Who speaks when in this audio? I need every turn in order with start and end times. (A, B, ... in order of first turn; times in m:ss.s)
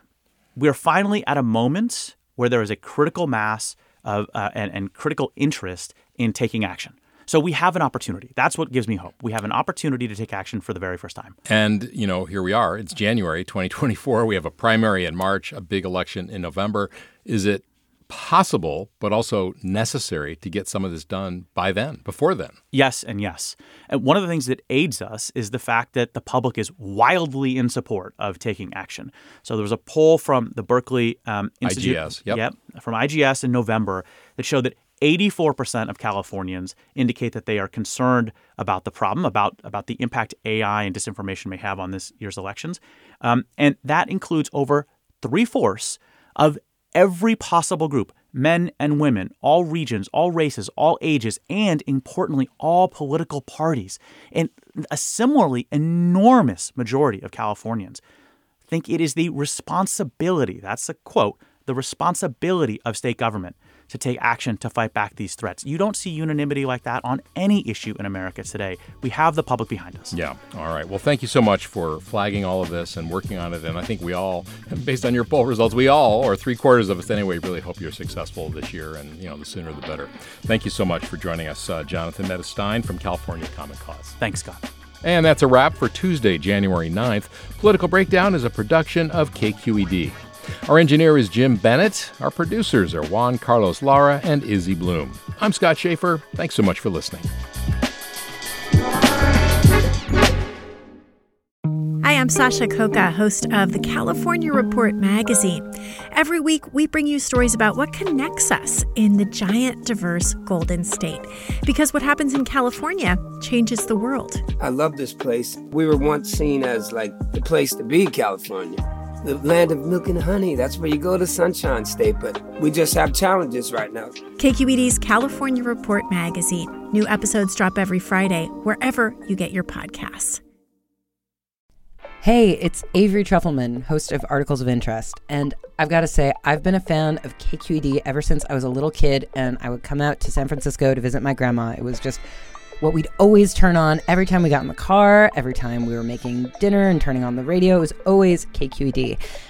0:00.6-0:11.4 A
0:11.4-0:22.6 B
0:22.7-0:58.0 A
0:31.6-0:32.4 B
0:58.7-1:10.1 A
1:10.1-1:24.2 B
1:24.2-1:24.6 A
1:25.0-1:37.3 B
1:42.0-1:54.4 C
1:54.6-2:04.2 D
2:04.4-2:10.4 C
2:12.2-2:22.2 E
2:22.8-2:29.2 E